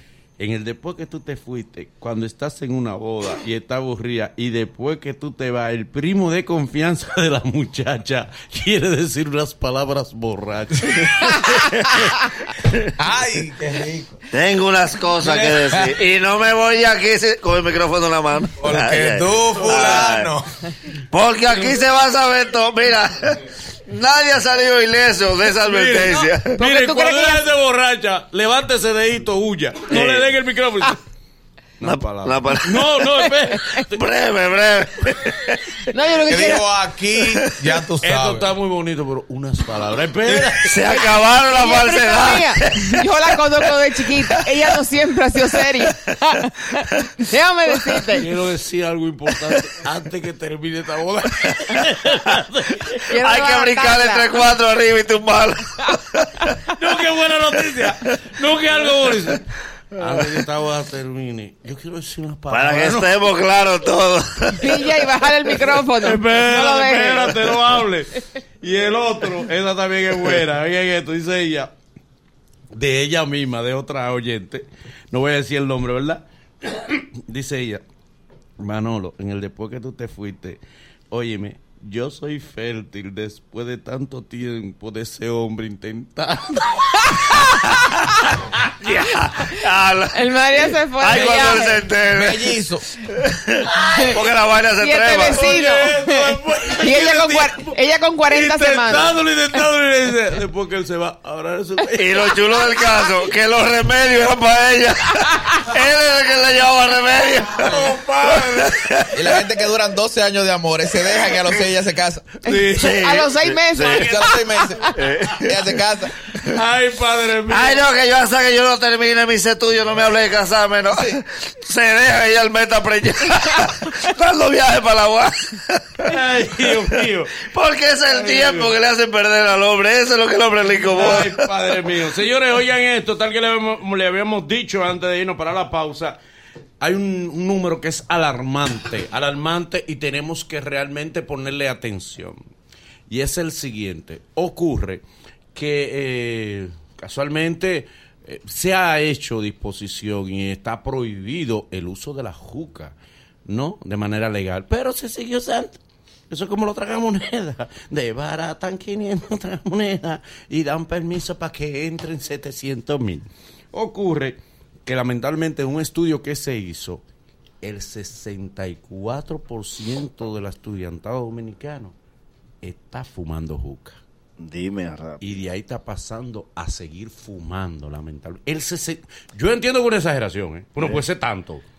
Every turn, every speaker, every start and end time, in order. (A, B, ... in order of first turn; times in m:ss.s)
0:00.4-0:11.7 A
0:11.5-0:12.8 B
0:13.0-0:14.1 C
0:14.3-0:20.3 B
0:15.2-0:15.9 C
0:18.6-0:20.5 C
0:19.5-0:20.1 A
0:21.1-0:26.6 B
0:25.5-0:31.0 A
0:26.6-0:27.5 D
0:29.9-0:30.3 B
0:31.8-0:34.0 A
0:31.8-0:33.0 B
0:33.9-0:35.8 B
0:35.9-0:36.6 D
0:36.3-0:38.5 C
0:37.2-0:37.5 B
0:38.0-0:41.0 A
0:40.2-0:44.2 B
0:41.4-0:48.3 D
0:48.1-0:53.0 A
0:53.0-0:54.3 D
0:53.1-0:56.5 B
0:56.7-1:03.2 A
1:02.5-1:05.0 B
1:04.5-1:07.4 D
1:05.6-1:11.7 A
1:12.7-1:17.8 A
1:18.6-1:28.0 A
1:28.8-1:32.6 B
1:30.1-1:31.8 D
1:32.1-1:32.8 C
1:33.2-1:35.5 B
1:33.8-1:34.2 D
1:34.8-1:39.2 D
1:35.2-1:42.8 A
1:42.0-1:49.4 B
1:47.6-1:48.8 A
1:49.1-1:52.3 C
1:52.4-1:53.0 A
1:52.4-1:55.0 D
1:52.8-1:54.1 B
1:53.9-1:54.3 A
1:53.9-1:56.1 C
1:54.9-1:55.5 B
1:56.4-1:57.8 A
1:57.5-2:06.1 B
2:06.0-2:07.4 A
2:07.3-2:11.4 B
2:08.1-2:08.7 A
2:10.8-2:16.2 A
2:16.8-2:22.4 A
2:23.1-2:35.8 A
2:36.3-2:47.0 A
2:47.6-2:51.9 A
2:52.6-2:54.0 A
2:54.4-2:55.2 B
2:55.2-3:01.6 A